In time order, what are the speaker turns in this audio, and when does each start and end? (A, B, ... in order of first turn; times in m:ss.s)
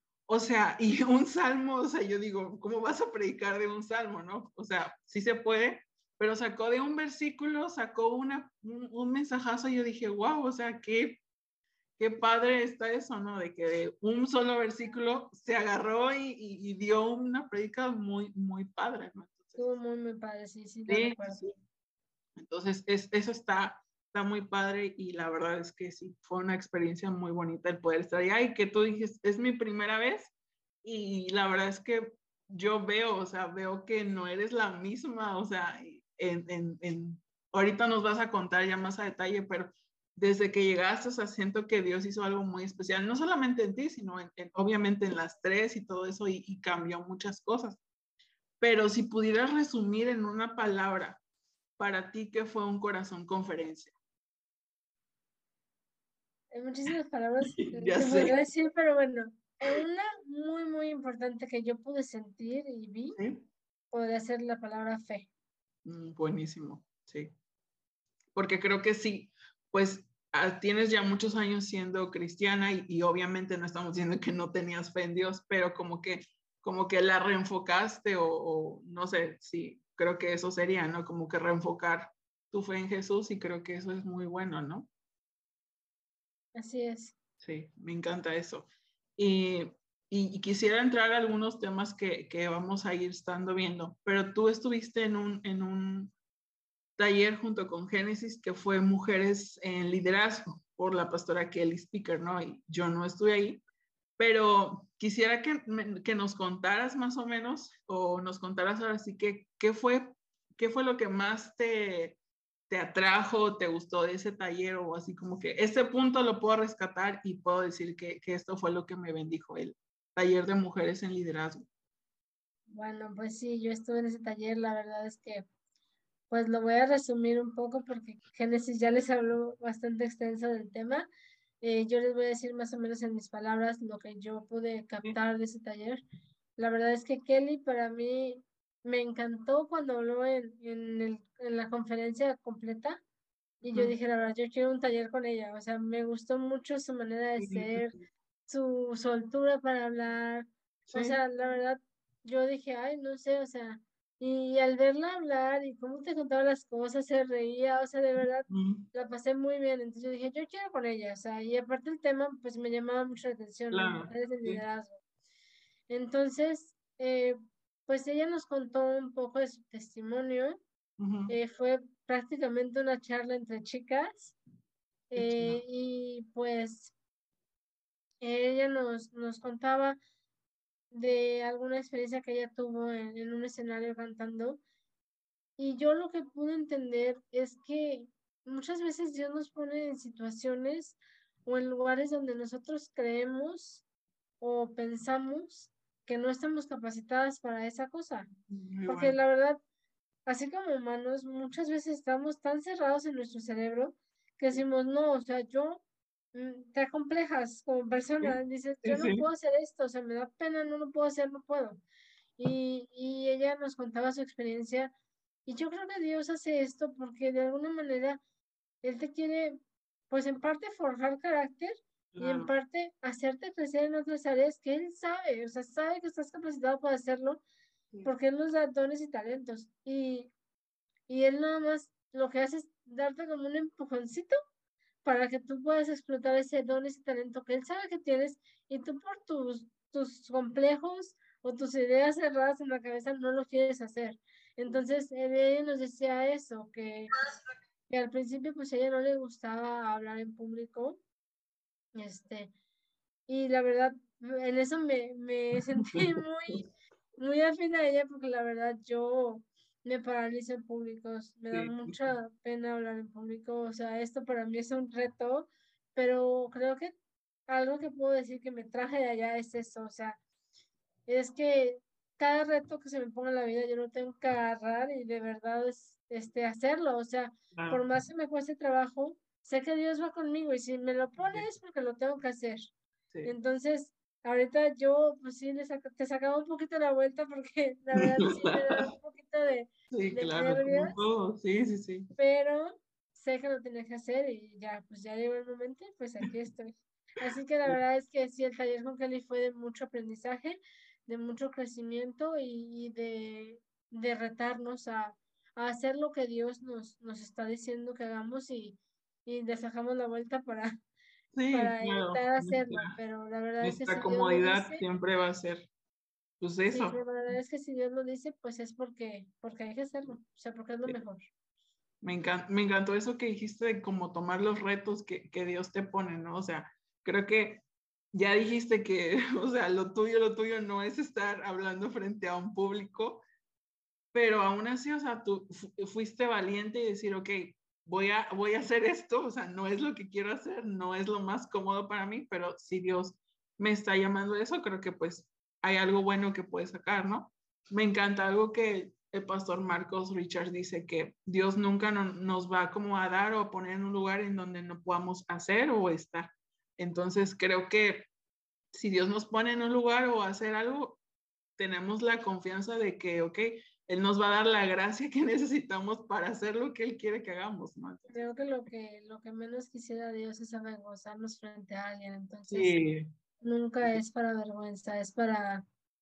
0:00.3-0:11.2 A
0:12.0-0:19.7 A
0:19.6-0:21.4 B
0:20.9-0:21.6 A
0:22.4-0:30.3 A
0:30.8-0:47.8 A
0:48.6-0:51.2 A
0:51.8-0:53.9 A
0:56.5-1:03.2 B
0:57.6-0:58.4 A
1:03.2-1:03.5 A
1:03.9-1:05.3 B
1:05.8-1:07.3 A
1:08.4-1:24.9 A
1:26.6-1:27.2 B
1:27.4-1:36.1 A
1:37.0-1:43.6 A
1:44.2-1:52.2 A
1:52.7-2:01.7 A
2:02.7-2:05.5 B
2:06.3-2:11.1 B
2:11.6-2:16.0 B
2:16.6-2:23.0 B
2:23.6-2:27.9 B
2:23.6-2:23.9 A
2:27.4-2:28.0 A
2:28.5-2:45.0 B
2:30.9-2:31.2 A
2:38.5-2:38.9 A
2:43.7-2:44.6 A
2:45.9-2:50.6 B
2:51.0-2:51.4 A
2:51.3-2:54.4 B
2:55.1-2:56.9 B
2:55.2-2:55.6 A
2:58.2-3:00.0 B
3:00.9-3:04.6 B
3:05.6-3:13.8 B
3:14.4-3:18.3 B
3:18.5-3:19.2 A
3:18.9-3:19.6 B
3:20.3-3:25.8 B
3:26.3-3:31.8 B
3:28.2-3:29.2 A
3:32.4-3:34.9 B
3:35.5-3:38.2 B
3:38.8-3:39.6 B
3:40.1-3:47.4 B
3:42.1-3:42.5 A
3:48.0-3:50.3 B
3:51.1-3:54.4 B
3:55.0-4:07.1 B
4:07.9-4:11.0 B
4:12.0-4:12.5 B
4:13.3-4:16.6 B
4:15.8-4:16.6 A
4:17.2-4:26.9 B
4:21.5-4:22.1 A
4:27.5-4:30.2 B
4:31.1-4:42.7 B
4:37.5-4:37.8 A
4:41.2-4:41.5 A
4:43.2-4:51.0 B
4:48.0-4:48.9 A
4:49.9-4:52.1 A
4:52.2-5:10.8 B
5:11.3-5:12.9 A
5:11.5-5:14.8 B
5:13.6-5:15.7 A
5:16.4-5:17.0 A
5:16.7-5:21.3 B
5:22.0-5:33.2 A
5:34.1-5:58.1 A
5:58.7-6:01.0 A
6:01.6-6:08.3 A
6:08.1-6:12.8 B
6:12.5-6:13.1 A
6:13.4-6:15.6 B